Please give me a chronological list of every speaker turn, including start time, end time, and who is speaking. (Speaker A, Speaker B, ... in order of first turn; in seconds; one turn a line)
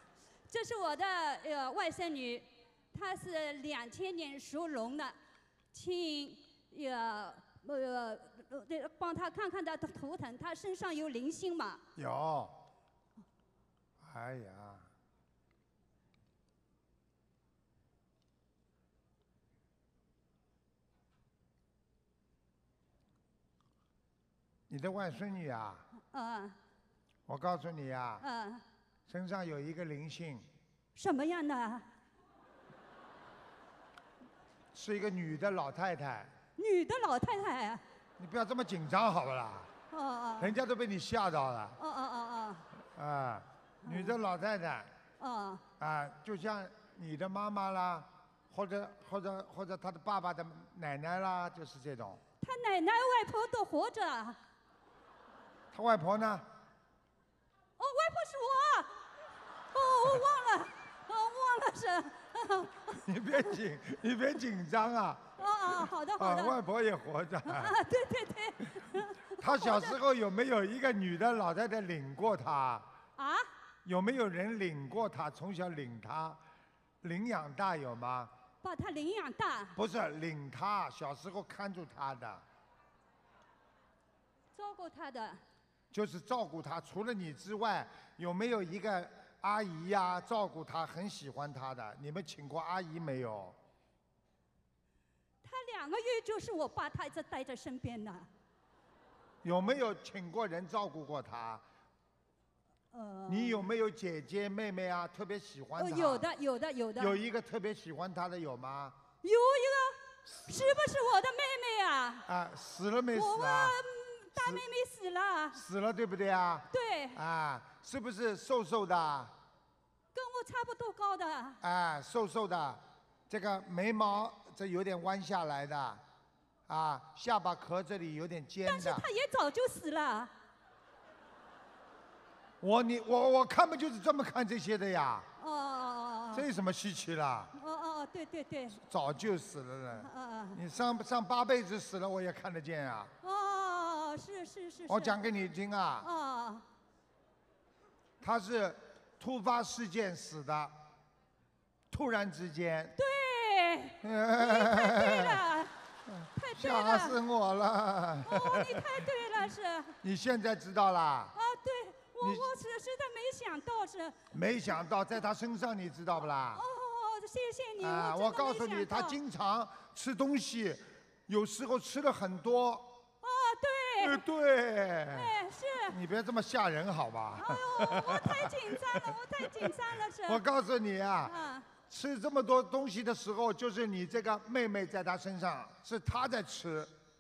Speaker A: 0.5-5.2
Speaker A: 5.7-11.8
Speaker B: 11.9-12.6
Speaker B: 14.0-14.9
Speaker B: 24.7-25.9
Speaker A: 26.0-26.6
Speaker B: 27.3-28.2
Speaker A: 28.2-28.6
Speaker B: 29.1-30.4
Speaker A: 30.9-31.9
Speaker B: 34.7-36.3
Speaker A: 36.5-37.8
Speaker B: 38.2-39.7
Speaker A: 39.9-40.6
Speaker B: 40.4-41.8
Speaker A: 41.8-42.6
Speaker B: 42.9-44.9
Speaker A: 43.8-44.2
Speaker A: 45.2-45.6
Speaker B: 45.8-52.2
Speaker A: 52.4-54.4
Speaker B: 55.7-56.5
Speaker A: 57.8-59.0
Speaker A: 59.7-63.0
Speaker B: 62.9-65.2
Speaker A: 65.4-66.6
Speaker B: 66.2-67.8
Speaker A: 67.4-70.0
Speaker B: 69.4-72.9
Speaker A: 73.2-73.5
Speaker B: 73.8-76.4
Speaker B: 77.0-78.3
Speaker A: 78.6-79.8
Speaker B: 79.8-82.4
Speaker A: 84.5-85.4
Speaker B: 85.9-93.6
Speaker A: 95.4-98.3
Speaker B: 99.4-101.6
Speaker A: 102.9-103.6
Speaker B: 103.3-106.3
Speaker A: 105.8-107.2
Speaker B: 107.0-109.0
Speaker A: 109.2-112.3
Speaker B: 110.4-110.7
Speaker B: 112.3-113.8
Speaker A: 113.1-115.6
Speaker B: 114.3-114.6
Speaker B: 115.5-119.3
Speaker A: 116.7-117.2
Speaker A: 120.1-121.6
Speaker B: 121.6-126.0
Speaker B: 126.7-129.1
Speaker A: 128.6-130.3
Speaker B: 132.6-135.3
Speaker A: 135.4-136.5
Speaker B: 136.3-137.5
Speaker A: 137.5-138.8
Speaker B: 138.7-143.1
Speaker A: 140.0-140.6
Speaker A: 143.2-145.3
Speaker B: 144.9-146.1
Speaker A: 146.0-146.6
Speaker B: 148.2-150.7
Speaker B: 151.9-153.0
Speaker A: 152.9-155.7
Speaker B: 154.0-155.5
Speaker B: 156.2-159.0
Speaker A: 156.3-157.2
Speaker A: 158.2-160.0
Speaker B: 160.0-161.4
Speaker A: 161.3-164.2
Speaker B: 162.2-162.5
Speaker B: 164.3-166.6
Speaker A: 166.5-169.2
Speaker B: 167.8-173.0
Speaker A: 173.2-174.2
Speaker B: 174.0-175.4
Speaker A: 175.1-175.9
Speaker B: 175.9-186.9
Speaker A: 177.3-180.4
Speaker A: 181.2-181.7